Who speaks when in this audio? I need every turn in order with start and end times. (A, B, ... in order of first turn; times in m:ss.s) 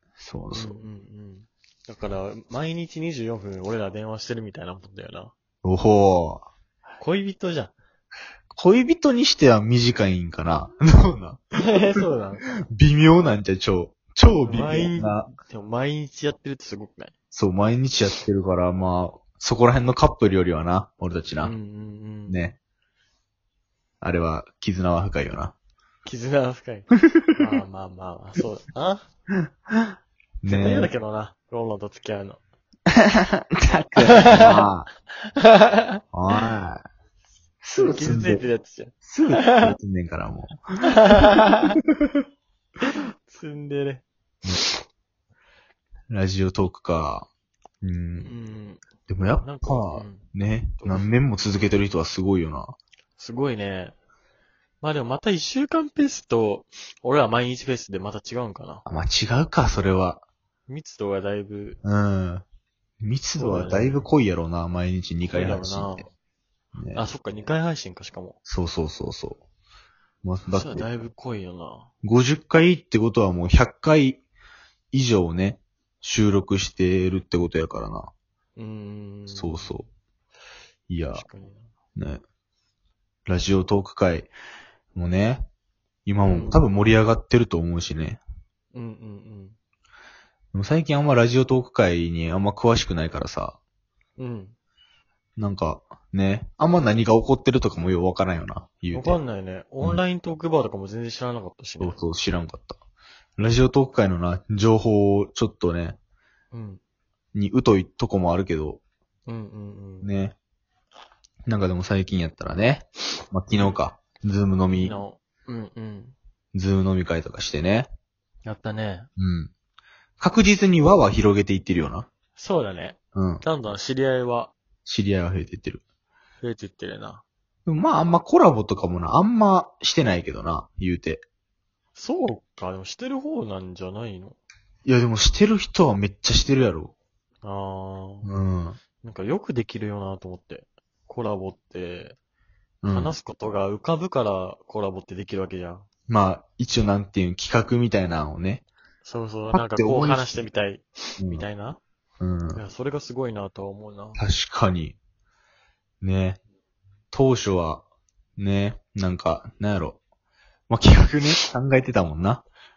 0:00.2-0:00.8 A
0:00.5-0:05.3 B
0:05.6-0:06.5 A
0:07.0-0:07.7 B
0:08.5-0:11.9 A
0:11.6-0:12.4 B
0:12.7-0:15.3 A
0:14.4-0:17.1 B
0:17.3-0:21.5 A
0:21.4-0:22.4 B
0:22.3-0:22.6 A
0:24.0-0:25.5 A
0:26.0-0:29.0 B
0:27.1-0:27.4 A
0:29.7-0:30.9 A
0:30.4-0:32.4 B
0:33.5-0:34.9 A
0:34.0-0:34.6 B
0:35.4-0:36.4 B
0:36.1-0:36.8 A
0:37.6-0:38.4 A
0:37.8-0:39.7 B
0:39.0-0:41.2 A
0:41.0-0:41.8 B
0:42.8-0:44.0 B
0:46.1-0:47.3 A
0:47.8-0:48.3 A
0:48.2-0:48.8 B
0:49.1-0:52.8 A
0:49.4-0:50.2 B
0:50.8-0:51.0 B
0:53.2-0:53.9 B
0:54.8-0:58.8 B
0:58.8-1:00.2 A
1:00.7-1:01.8 B
1:01.8-1:02.4 A
1:03.0-1:06.1 A
1:03.4-1:04.0 B
1:05.2-1:06.1 B
1:06.7-1:07.0 A
1:06.9-1:08.4 B
1:08.4-1:09.4 A
1:10.2-1:10.9 A
1:10.5-1:11.9 B
1:12.0-1:14.2 A
1:14.9-1:18.1 A
1:18.6-1:19.8 B
1:19.3-1:19.9 A
1:20.9-1:21.2 A
1:21.1-1:21.7 B
1:22.0-1:22.2 A
1:23.3-1:24.3 A
1:24.9-1:25.5 A
1:26.0-1:28.2 A
1:26.3-1:26.6 B
1:28.7-1:29.6 B
1:30.5-1:33.6 A
1:34.2-1:34.5 B
1:35.4-1:39.2 A
1:38.9-1:42.0 B
1:41.8-1:42.8 A
1:43.4-1:46.0 A
1:46.5-1:46.8 B
1:47.3-1:48.8 A
1:49.2-1:50.1 B
1:50.0-1:50.3 A
1:51.4-1:55.0 A
1:54.7-1:56.1 B
1:56.5-1:57.9 A
1:58.4-1:59.1 B
1:59.2-1:59.5 A
2:00.2-2:02.1 A
2:02.4-2:04.5 B
2:03.1-2:03.4 A
2:04.8-2:05.8 A
2:06.4-2:07.2 B
2:07.6-2:11.2 A
2:12.0-2:14.4 B
2:14.8-2:16.9 A
2:17.4-2:18.3 B
2:18.2-2:18.8 A
2:19.0-2:22.2 B
2:22.8-2:23.1 A
2:22.9-2:25.8 B
2:26.1-2:28.6 A
2:29.0-2:31.8 B
2:29.5-2:30.3 A
2:31.2-2:31.5 A
2:32.2-2:32.6 A
2:32.5-2:34.2 B
2:34.2-2:35.0 A
2:36.0-2:36.4 A
2:37.1-2:37.8 A
2:38.4-2:40.0 A
2:40.7-2:42.4 A